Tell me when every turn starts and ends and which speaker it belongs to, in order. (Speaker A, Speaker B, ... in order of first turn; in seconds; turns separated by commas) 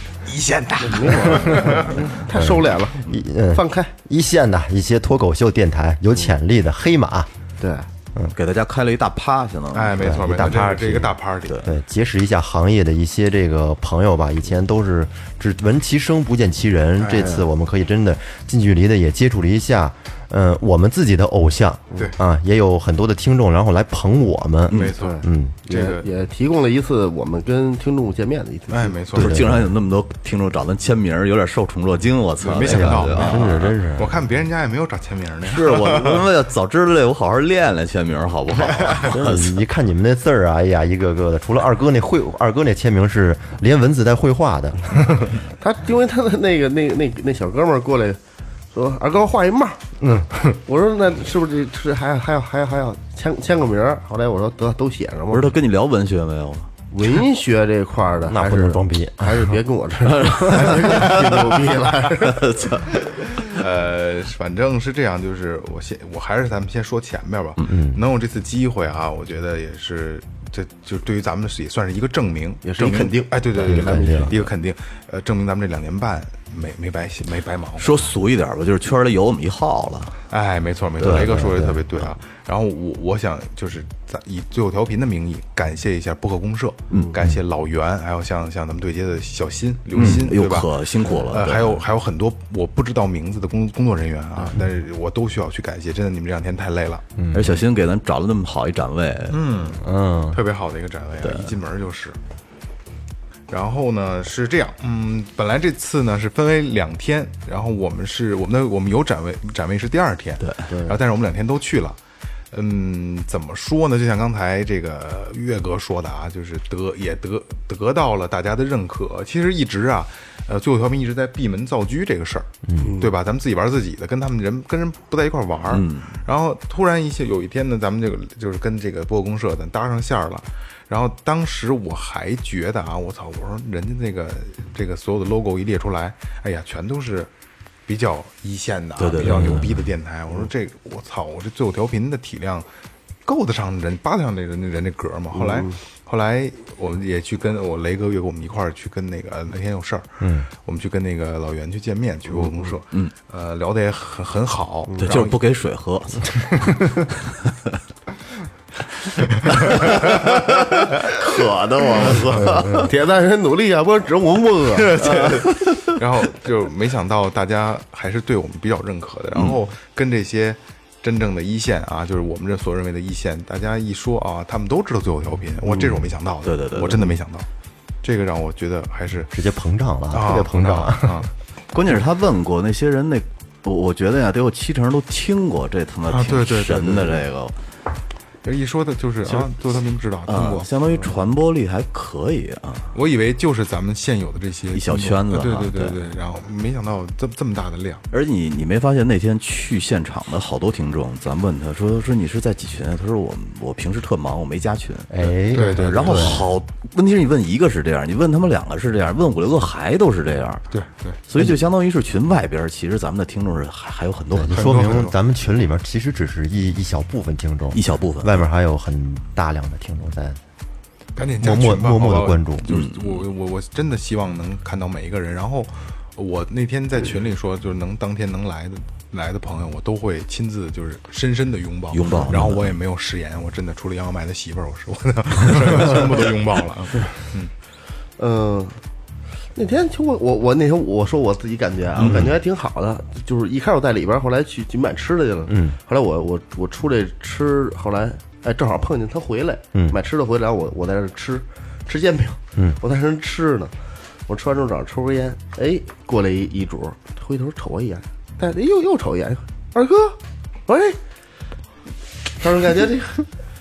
Speaker A: 0.2-2.2, Speaker B: 0.8-3.0, Speaker C: 2.3-7.3, Speaker B: 3.5-3.9, Speaker B: 7.6-7.9, Speaker D: 8.3-10.1, Speaker A: 9.7-11.7, Speaker C: 10.0-25.6, Speaker B: 17.1-17.5, Speaker D: 24.7-24.9, Speaker A: 24.7-26.1, Speaker B: 25.0-28.9, Speaker A: 28.7-29.4, Speaker C: 29.1-29.7, Speaker D: 29.1-33.7, Speaker A: 32.4-36.2, Speaker C: 32.6-34.2, Speaker D: 35.4-39.6, Speaker C: 39.1-45.4, Speaker B: 45.6-48.2, Speaker B: 48.7-49.8, Speaker C: 50.0-50.6, Speaker B: 50.6-55.5, Speaker D: 55.3-56.7, Speaker B: 56.9-62.4, Speaker C: 58.3-59.5, Speaker D: 60.2-61.5, Speaker D: 62.2-62.9, Speaker A: 63.5-78.0, Speaker C: 67.6-68.0, Speaker B: 72.6-74.4, Speaker C: 73.6-74.4, Speaker D: 77.8-80.2, Speaker A: 80.3-97.0, Speaker D: 81.0-81.4, Speaker C: 81.0-81.8, Speaker D: 89.9-91.8, Speaker C: 97.2-97.6, Speaker D: 97.3-99.5, Speaker A: 99.3-102.2, Speaker C: 99.8-100.4, Speaker D: 101.2-101.5, Speaker A: 103.5-112.0, Speaker B: 110.7-111.0, Speaker A: 112.5-137.3, Speaker C: 122.7-122.9, Speaker D: 125.7-126.2, Speaker A: 137.9-142.7, Speaker D: 139.0-139.8, Speaker A: 143.2-155.3, Speaker B: 145.3-145.7, Speaker C: 150.2-150.5, Speaker D: 155.0-156.8, Speaker A: 159.4-160.0, Speaker D: 159.6-160.2, Speaker D: 161.0-162.8, Speaker B: 161.3-165.0, Speaker A: 164.8-177.5, Speaker D: 175.7-177.1, Speaker A: 178.0-179.3, Speaker C: 179.3-181.3, Speaker A: 180.1-181.3, Speaker D: 181.7-187.5, Speaker A: 186.1-187.2, Speaker A: 188.4-190.7, Speaker D: 189.2-189.5, Speaker D: 190.3-192.9, Speaker A: 192.9-198.0, Speaker D: 194.7-196.0, Speaker D: 198.1-210.6, Speaker C: 205.1-206.5, Speaker A: 205.5-206.4, Speaker A: 210.7-211.2, Speaker D: 211.3-215.0, Speaker C: 214.3-220.4, Speaker A: 214.5-215.1, Speaker D: 217.7-218.4, Speaker A: 221.2-237.5, Speaker C: 221.4-222.7, Speaker D: 222.7-223.2, Speaker D: 231.9-232.7, Speaker B: 238.2-238.8, Speaker B: 239.5-253.7, Speaker D: 242.0-242.3, Speaker C: 242.0-242.3, Speaker C: 245.5-245.8, Speaker B: 254.3-261.0, Speaker B: 262.4-263.2